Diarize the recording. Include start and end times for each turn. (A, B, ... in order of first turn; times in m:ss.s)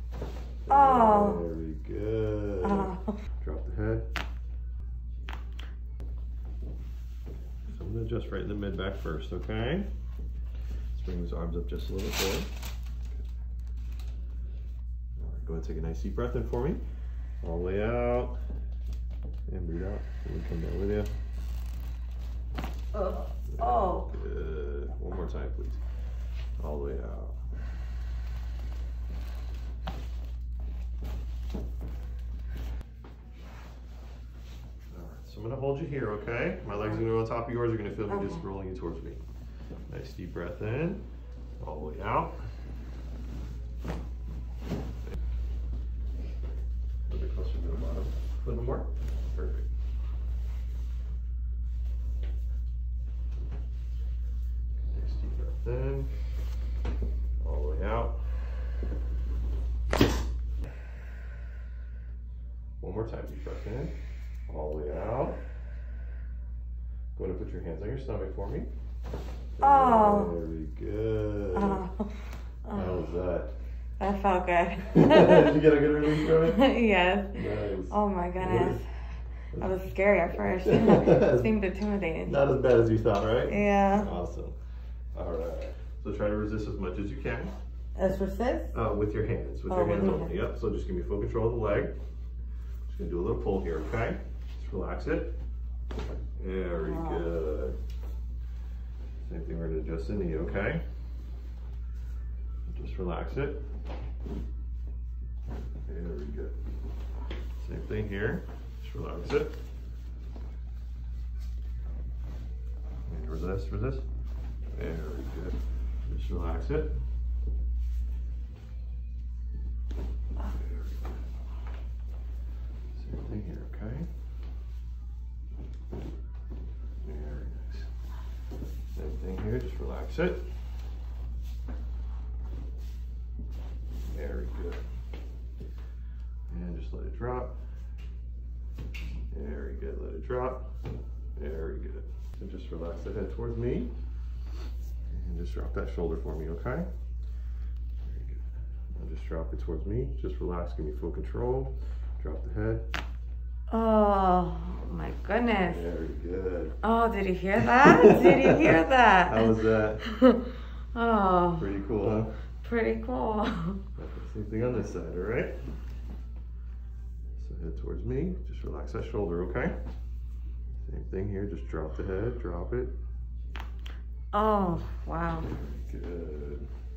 0:00.6-0:04.1 A
0:00.7-0:01.4 B
0:02.6-0:03.1 B
0:07.7-0:09.9 A
0:10.9-0:12.5 A
0:15.2-0:16.8 A
0:17.4-0:18.4 A
0:19.5-0:21.1 A
0:22.9-0:24.1 B
0:23.5-0:25.8 A
0:26.6-0:27.4 A
0:34.9-0:39.2 A
0:38.1-0:38.4 B
0:39.9-0:41.0 A
0:41.6-0:42.4 A
0:47.1-0:49.7 A
0:54.9-0:56.1 A
0:57.4-0:58.2 A
1:02.8-1:03.9 A
1:04.5-1:05.4 A
1:07.1-1:08.7 A
1:09.6-1:11.8 A
1:09.6-1:10.3 B
1:11.5-1:12.1 B
1:12.6-1:13.0 B
1:12.7-1:13.5 A
1:14.0-1:15.6 B
1:14.8-1:16.7 A
1:16.2-1:18.8 B
1:17.3-1:18.8 A
1:19.6-1:22.4 B
1:20.6-1:21.5 A
1:22.3-1:24.6 A
1:23.5-1:24.1 B
1:25.1-1:27.5 A
1:28.0-1:28.7 B
1:28.7-1:31.9 A
1:29.7-1:30.3 B
1:32.9-1:35.3 A
1:36.4-1:37.8 A
1:36.7-1:37.3 B
1:39.2-1:40.8 A
1:42.7-1:43.6 A
1:45.8-1:46.6 A
1:47.6-1:49.6 A
1:53.1-1:54.0 A
1:54.7-1:57.0 A
2:00.4-2:01.2 A
2:03.0-2:04.1 A
2:07.0-2:07.9 A
2:08.9-2:10.4 A
2:14.1-2:14.8 A
2:16.5-2:17.6 A
2:19.3-2:20.7 A
2:21.4-2:23.9 A
2:25.1-2:26.9 A
2:28.0-2:32.8 A
2:33.7-2:35.8 B
2:35.7-2:36.8 A
2:36.8-2:41.7 B
2:37.6-2:38.7 A
2:39.2-2:40.0 A
2:41.6-2:42.3 A
2:42.6-2:43.8 B
2:44.0-2:45.5 A
2:47.4-2:49.8 A
2:50.8-2:52.9 A
2:54.3-2:55.5 B
2:55.4-2:56.7 A